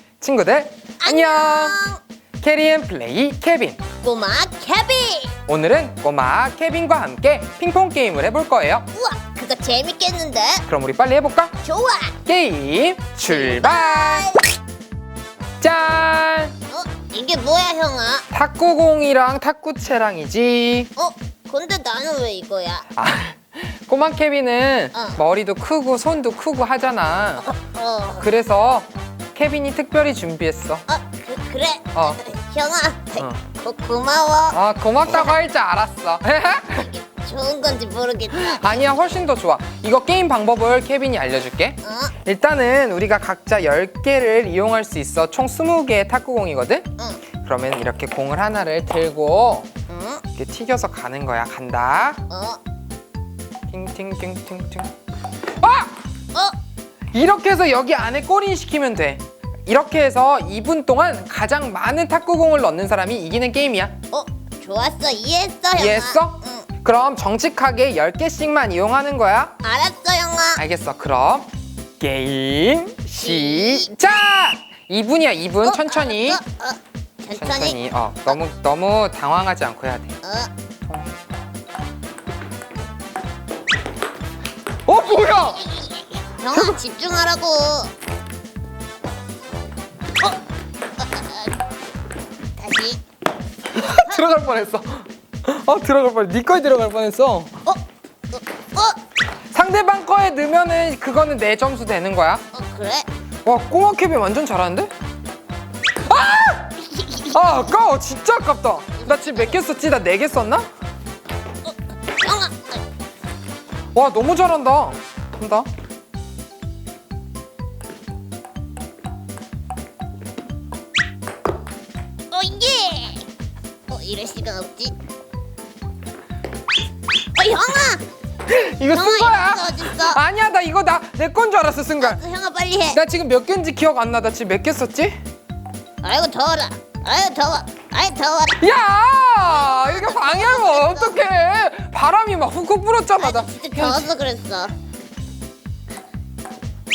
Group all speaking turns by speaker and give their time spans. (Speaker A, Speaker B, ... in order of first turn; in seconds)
Speaker A: 0.2-1.8, 2.4-3.8, 5.5-8.9, 10.7-11.5, 12.3-14.3, 15.6-16.5, 18.3-20.9, 23.0-27.5, 28.2-30.8, 34.5-36.9, 38.3-46.9, 47.4-49.7, 50.4-52.2, 53.7-54.9, 55.6-56.0, 57.1-64.0, 65.8-69.5, 70.6-76.4, 77.3-80.2, 84.9-85.7, 86.5-86.8, 93.7-97.5, 99.5-102.4, 103.5-104.9, 106.0-110.7, 113.9-115.7, 128.5-132.2, 132.9-135.2, 138.6-144.1
Speaker B: 1.0-2.0, 4.0-5.4, 8.9-10.7, 11.6-12.2, 13.2-14.5, 16.7-18.2, 21.0-22.9, 24.9-25.2, 27.4-28.3, 30.9-35.4, 36.8-38.9, 41.8-42.1, 49.9-50.2, 52.3-52.6, 64.1-66.7, 69.6-70.6, 73.2-73.9, 75.6-77.8, 80.2-80.5, 85.1-87.9, 91.0-91.6, 92.6-93.0, 93.8-94.2, 97.7-99.0, 102.5-103.1, 106.9-107.6, 109.0-109.6, 111.6-112.8, 122.3-123.3, 123.9-124.9, 127.3-128.0, 128.9-130.2, 132.0-133.0, 136.0-138.7, 139.4-141.2, 143.2-144.7